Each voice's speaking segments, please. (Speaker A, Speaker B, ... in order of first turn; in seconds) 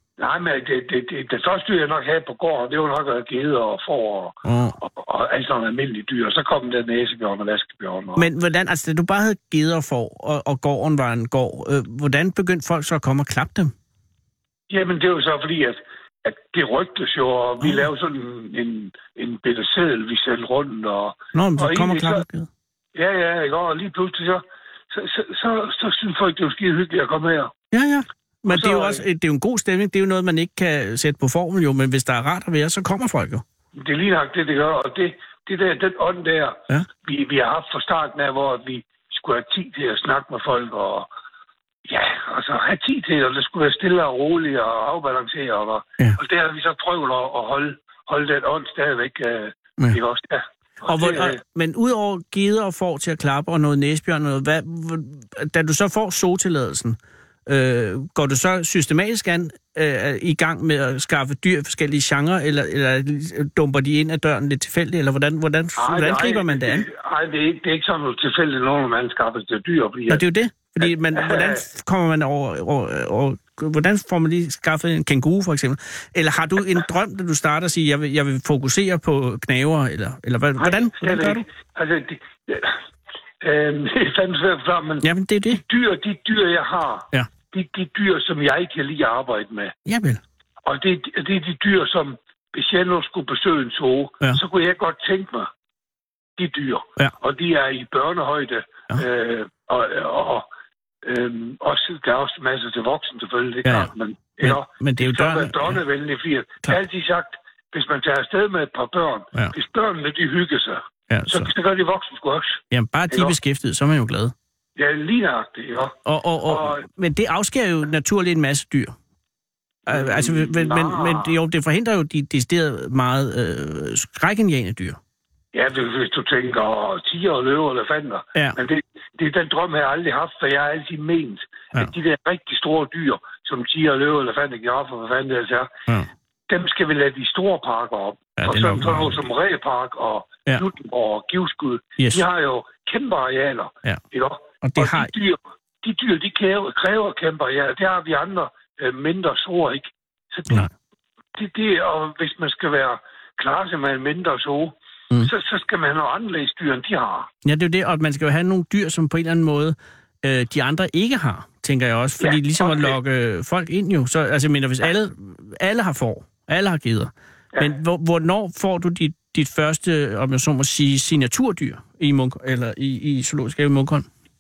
Speaker A: 0.2-8.3, 14.7-22.2, 22.9-27.5, 28.5-29.0, 33.7-41.1, 41.9-51.4, 65.8-70.2, 70.8-71.6, 80.6-82.8, 83.4-89.7, 90.6-95.5, 96.4-100.5, 101.0-113.3, 114.8-116.8, 119.9-121.3, 125.5-135.7, 136.5-150.7, 151.3-157.3, 162.2-163.0
Speaker B: 4.4-4.8, 8.2-13.7, 21.3-22.5, 27.7-33.4, 50.9-66.8, 70.1-81.4, 85.0-85.6, 89.8-90.2, 103.6-105.8, 111.1-111.5, 112.7-114.3, 116.0-118.9, 119.9-125.0, 138.4-139.2, 144.6-145.1, 157.4-174.1